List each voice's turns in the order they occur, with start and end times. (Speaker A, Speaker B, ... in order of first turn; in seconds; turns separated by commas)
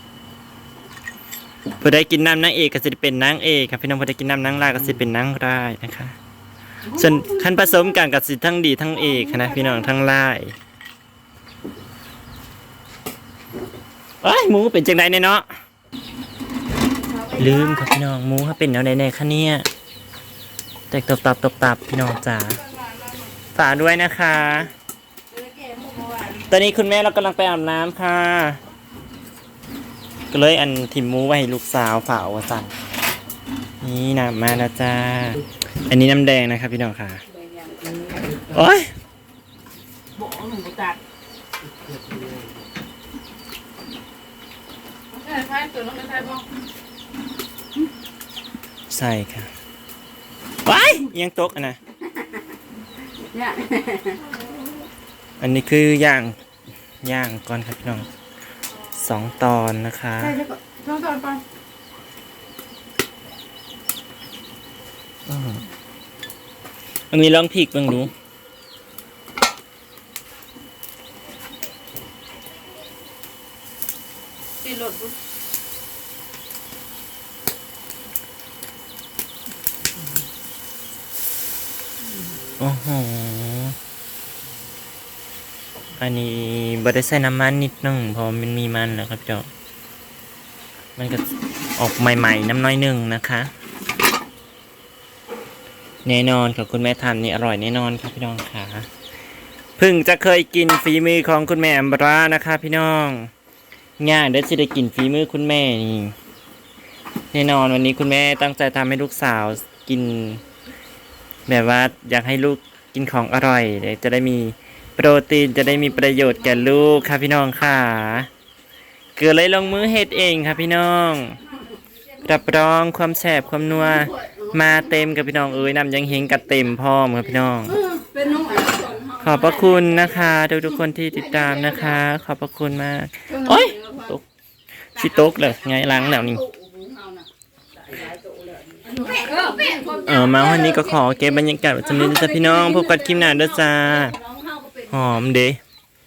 Speaker A: 1.8-6.2, Speaker B: 6.8-7.9, Speaker A: 6.9-10.6, Speaker B: 8.9-9.9, Speaker A: 14.2-15.5, Speaker B: 17.0-17.9, Speaker A: 17.4-19.7, Speaker A: 20.9-22.6, Speaker B: 22.6-23.3, Speaker A: 23.5-24.7, Speaker B: 25.3-26.5, Speaker A: 26.5-28.6, Speaker A: 30.3-32.7, Speaker A: 33.8-37.2, Speaker B: 37.3-38.4, Speaker A: 38.5-38.9, Speaker C: 40.2-40.9, Speaker C: 45.2-46.4, Speaker B: 45.2-46.4, Speaker A: 48.9-49.5, Speaker A: 50.6-51.8, Speaker B: 53.3-54.3, Speaker A: 55.4-56.4, Speaker A: 57.0-58.1, Speaker A: 59.0-60.4, Speaker B: 60.2-61.4, Speaker A: 65.3-65.6, Speaker A: 67.1-68.1, Speaker B: 74.7-75.1, Speaker A: 82.6-83.8, Speaker A: 86.0-89.5, Speaker A: 91.0-93.5, Speaker A: 96.0-98.9, Speaker A: 99.8-103.3, Speaker A: 104.0-106.1, Speaker A: 107.3-110.4, Speaker A: 111.5-118.3, Speaker B: 115.9-116.9, Speaker A: 119.2-121.4, Speaker A: 122.2-127.8, Speaker B: 123.8-125.3, Speaker B: 127.5-132.0, Speaker A: 129.2-134.2, Speaker B: 133.3-134.2, Speaker A: 134.9-136.4, Speaker B: 135.0-137.3, Speaker C: 138.6-140.3, Speaker B: 138.8-145.1, Speaker A: 140.1-144.2, Speaker A: 144.9-145.6